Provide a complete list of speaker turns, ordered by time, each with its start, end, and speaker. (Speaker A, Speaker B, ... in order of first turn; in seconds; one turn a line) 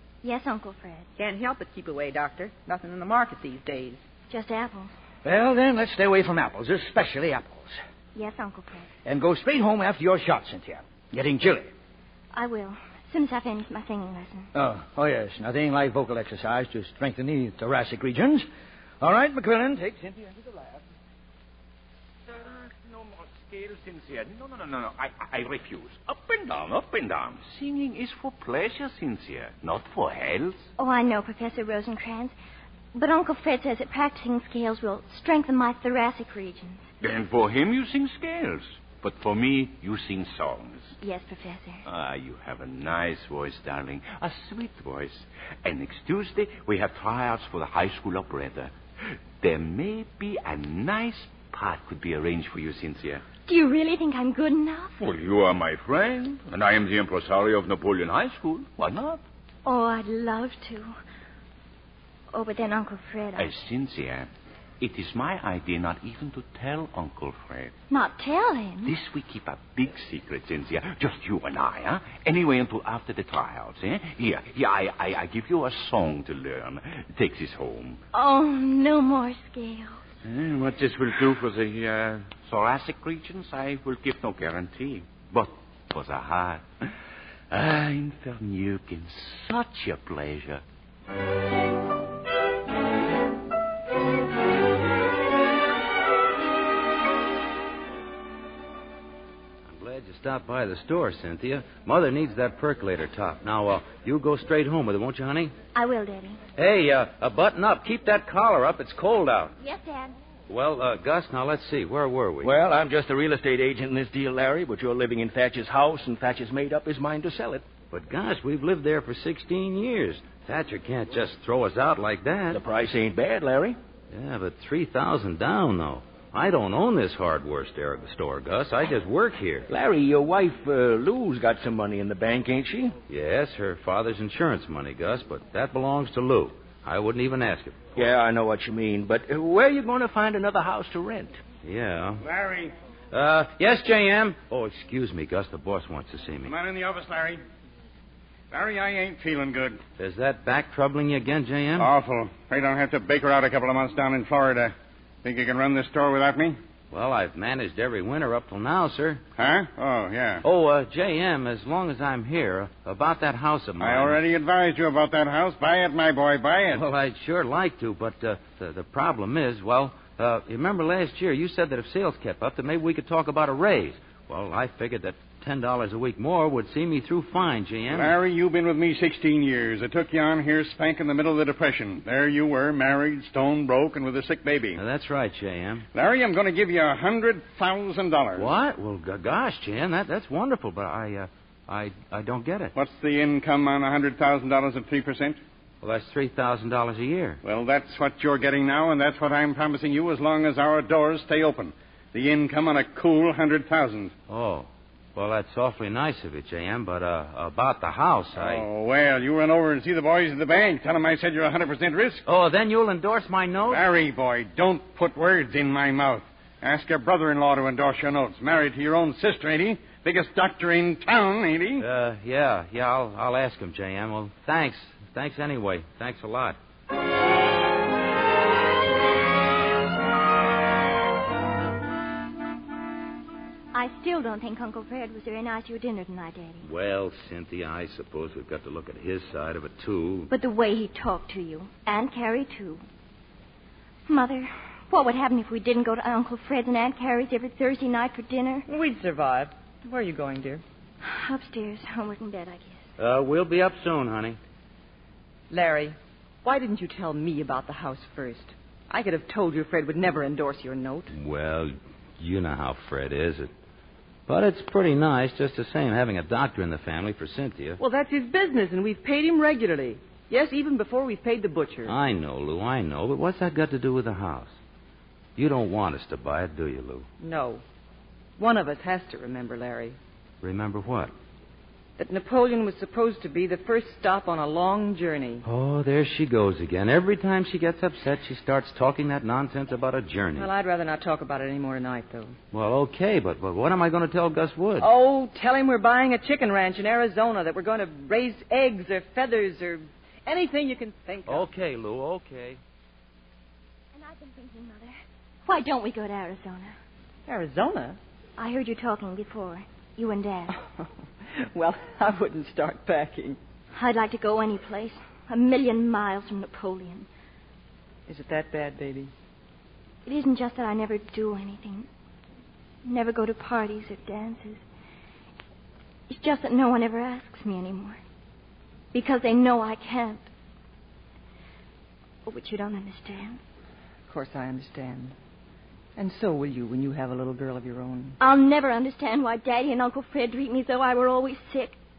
Speaker A: 0.2-1.1
Speaker B: 1.2-4.0
Speaker A: 4.3-4.9
Speaker C: 5.2-7.8
Speaker A: 8.1-8.9
Speaker C: 9.0-11.7
Speaker A: 12.3-14.5
Speaker C: 14.5-18.5
Speaker C: 19.0-20.7
Speaker D: 22.3-30.7
Speaker A: 30.8-32.3
Speaker A: 32.9-36.9
Speaker D: 37.0-40.9
Speaker A: 41.0-41.9
Speaker D: 41.9-48.7
Speaker D: 49.4-53.2
Speaker A: 53.5-54.9
Speaker D: 55.0-59.2
Speaker A: 59.6-60.9
Speaker A: 62.3-63.5
Speaker D: 63.4-64.3
Speaker D: 64.8-67.7
Speaker A: 67.9-68.9
Speaker D: 68.8-78.0
Speaker A: 78.1-80.0
Speaker D: 80.2-86.7
Speaker D: 87.5-90.6
Speaker E: 99.7-105.5
Speaker A: 105.7-106.4
Speaker E: 106.5-109.5
Speaker A: 109.6-110.1
Speaker E: 110.5-112.5
Speaker C: 112.4-117.6
Speaker E: 117.9-122.6
Speaker C: 122.5-123.8
Speaker E: 124.1-129.7
Speaker C: 129.7-132.9
Speaker E: 133.1-138.1
Speaker C: 138.0-141.4
Speaker E: 141.6-142.2
Speaker F: 142.2-142.7
Speaker E: 143.1-146.5
Speaker F: 146.4-147.4
Speaker F: 148.5-149.8
Speaker E: 150.0-151.9
Speaker F: 151.8-154.7
Speaker F: 155.2-156.6
Speaker E: 156.9-159.2
Speaker F: 159.4-160.4
Speaker E: 160.4-164.2
Speaker F: 163.8-166.8
Speaker E: 166.7-178.2
Speaker F: 177.9-184.8
Speaker E: 184.8-185.8
Speaker F: 185.9-188.6
Speaker E: 188.3-192.7
Speaker F: 192.8-195.4
Speaker E: 195.8-197.4
Speaker F: 197.4-204.1
Speaker E: 204.3-208.7
Speaker F: 208.3-212.2
Speaker E: 212.2-213.8
Speaker F: 213.7-221.8
Speaker E: 221.8-226.6
Speaker A: 233.7-236.7
Speaker E: 236.6-240.3
Speaker A: 240.3-242.8
Speaker A: 244.1-248.7
Speaker G: 248.7-250.6
Speaker A: 251.0-252.8
Speaker E: 253.0-254.4
Speaker G: 255.5-261.1
Speaker E: 261.1-263.5
Speaker E: 264.3-267.8
Speaker G: 267.8-271.9
Speaker E: 271.8-274.5
Speaker E: 275.4-277.1
Speaker G: 277.2-277.6
Speaker G: 278.4-280.0
Speaker E: 280.4-281.1
Speaker G: 282.0-285.4
Speaker E: 285.4-290.5
Speaker G: 290.3-292.4
Speaker E: 292.5-294.9
Speaker G: 294.8-301.5
Speaker E: 301.2-302.6
Speaker A: 303.9-306.7
Speaker G: 307.3-308.0
Speaker A: 308.4-310.6
Speaker G: 311.3-313.4
Speaker A: 313.7-317.1
Speaker G: 318.1-319.1
Speaker A: 320.0-321.9
Speaker A: 322.8-324.6
Speaker A: 326.1-328.0
Speaker A: 328.9-330.3
Speaker A: 332.2-333.4
Speaker G: 334.1-335.1
Speaker G: 336.0-338.2
Speaker A: 338.2-341.8